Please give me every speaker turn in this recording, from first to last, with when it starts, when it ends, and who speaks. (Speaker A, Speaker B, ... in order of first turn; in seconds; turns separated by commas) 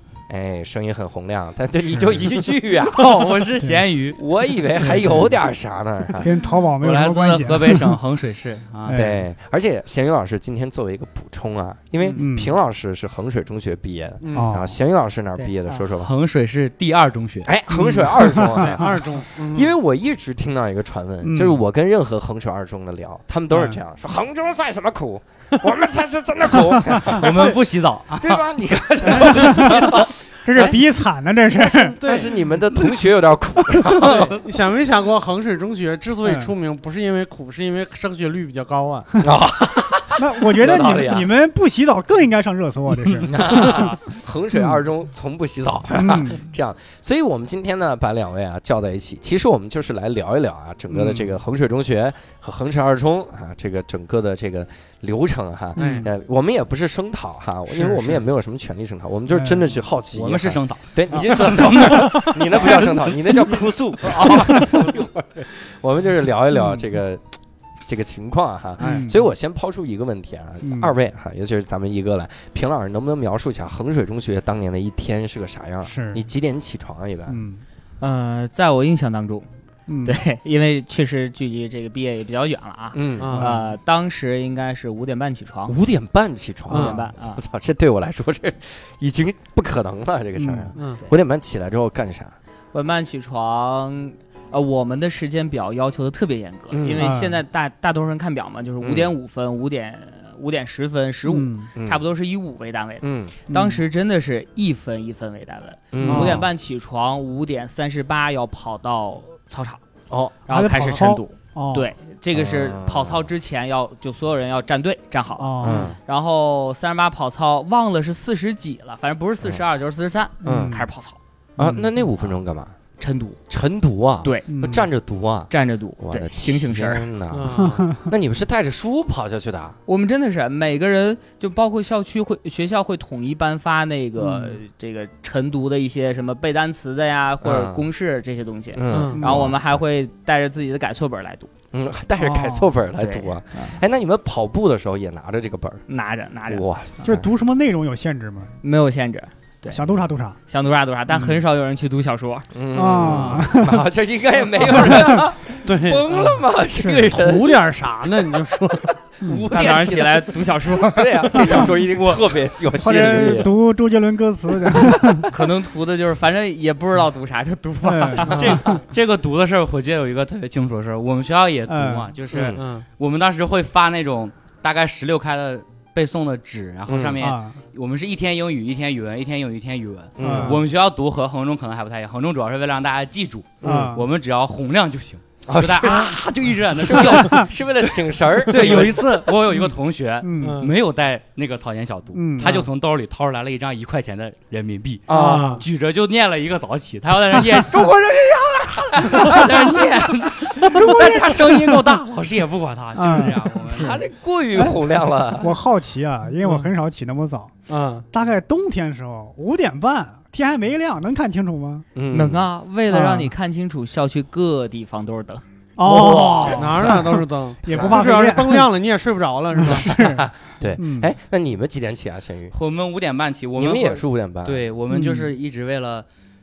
Speaker A: 0.3-3.3, Speaker B: 1.8-2.5, Speaker C: 2.9-4.2, Speaker A: 4.2-6.3, Speaker D: 4.8-5.3, Speaker B: 6.2-8.0, Speaker C: 6.8-9.0, Speaker B: 8.9-9.2, Speaker A: 8.9-16.1, Speaker B: 12.2-12.6, Speaker D: 14.2-14.6, Speaker B: 14.3-14.8, Speaker C: 15.9-17.5, Speaker A: 17.4-27.6, Speaker B: 17.7-19.0, Speaker D: 17.9-19.8, Speaker B: 21.2-21.6, Speaker B: 23.5-23.8, Speaker B: 26.7-27.0, Speaker C: 27.1-28.4, Speaker A: 28.1-30.8, Speaker B: 29.1-32.0, Speaker D: 31.7-32.4, Speaker A: 32.0-34.4, Speaker D: 33.9-39.1, Speaker B: 36.2-36.5, Speaker A: 39.2-41.3, Speaker B: 40.1-44.0, Speaker A: 43.2-77.4, Speaker B: 44.5-44.8, Speaker B: 46.0-46.4, Speaker B: 50.9-51.4, Speaker D: 55.8-56.1, Speaker B: 55.8-56.1, Speaker B: 57.7-58.2, Speaker B: 59.3-59.8, Speaker C: 60.1-62.7, Speaker D: 61.8-62.8, Speaker C: 64.0-64.7, Speaker B: 64.5-64.8, Speaker B: 66.5-67.0, Speaker B: 68.8-69.2, Speaker B: 70.6-70.9, Speaker B: 75.8-76.3, Speaker B: 77.3-77.6, Speaker E: 78.0-79.5, Speaker B: 79.9-80.2, Speaker E: 80.0-85.7, Speaker A: 82.9-83.5, Speaker D: 83.2-83.5, Speaker A: 85.7-92.3, Speaker D: 86.7-87.0, Speaker E: 86.7-87.4, Speaker B: 90.4-90.7, Speaker D: 90.8-91.0, Speaker E: 92.7-109.8, Speaker A: 96.7-97.1, Speaker B: 96.9-97.4, Speaker A: 98.8-99.1, Speaker B: 101.3-101.7, Speaker A: 101.8-102.0, Speaker A: 103.0-103.4, Speaker B: 103.5-103.8, Speaker A: 105.9-106.5, Speaker D: 106.0-106.5, Speaker A: 110.1-110.4, Speaker E: 110.5-121.2, Speaker B: 110.5-111.9, Speaker A: 112.3-113.3, Speaker B: 115.4-115.9, Speaker A: 115.6-116.0, Speaker B: 120.4-120.9, Speaker A: 120.4-120.8, Speaker A: 121.6-122.8, Speaker B: 121.6-122.1, Speaker E: 123.0-123.4, Speaker A: 123.5-129.8, Speaker E: 124.2-124.5, Speaker B: 124.5-124.9, Speaker E: 125.5-127.1, Speaker D: 127.3-128.0, Speaker B: 127.6-128.1, Speaker E: 129.9-141.5, Speaker B: 134.2-134.6, Speaker A: 137.4-137.8, Speaker A: 138.8-139.8, Speaker D: 138.9-139.2, Speaker B: 139.1-139.4, Speaker A: 141.7-145.8, Speaker B: 142.2-142.7, Speaker E: 143.0-143.8, Speaker E: 145.9-146.7, Speaker A: 146.5-147.3, Speaker B: 147.0-148.5, Speaker E: 148.6-149.8, Speaker B: 149.7-150.4, Speaker E: 150.5-152.5, Speaker B: 151.1-151.4, Speaker A: 152.5-157.6, Speaker B: 152.7-153.9, Speaker D: 152.9-153.4, Speaker B: 154.6-155.3, Speaker D: 155.7-156.2, Speaker B: 156.8-157.1, Speaker D: 157.1-159.0, Speaker B: 159.2-159.5, Speaker A: 159.2-163.5, Speaker E: 159.5-162.2, Speaker B: 161.3-161.7, Speaker B: 162.8-165.3, Speaker A: 164.7-165.3, Speaker E: 165.3-168.7, Speaker B: 167.8-168.6, Speaker C: 168.3-187.9, Speaker A: 168.4-168.8, Speaker B: 171.7-172.1, Speaker A: 172.3-172.6, Speaker D: 172.4-172.9, Speaker A: 176.9-177.2, Speaker B: 177.2-177.5, Speaker A: 180.2-180.5, Speaker B: 180.2-180.6, Speaker D: 180.2-180.5, Speaker A: 183.6-184.0, Speaker B: 183.6-184.1, Speaker A: 185.5-186.2, Speaker A: 186.8-189.3, Speaker B: 186.9-187.5, Speaker C: 188.5-204.0, Speaker B: 190.2-190.6, Speaker D: 190.4-190.7, Speaker B: 192.1-192.7, Speaker A: 195.1-195.6, Speaker D: 195.1-195.6, Speaker A: 199.2-199.7, Speaker B: 200.7-201.8, Speaker B: 203.0-207.6, Speaker A: 203.7-205.5, Speaker D: 207.7-208.1, Speaker B: 208.1-211.9, Speaker A: 211.9-212.5, Speaker E: 212.1-215.4, Speaker B: 212.9-213.3, Speaker B: 215.8-218.7, Speaker A: 215.8-217.0, Speaker D: 216.5-219.9, Speaker B: 219.5-221.1, Speaker A: 219.8-222.5, Speaker C: 222.5-226.1, Speaker A: 223.6-224.6, Speaker B: 224.9-225.3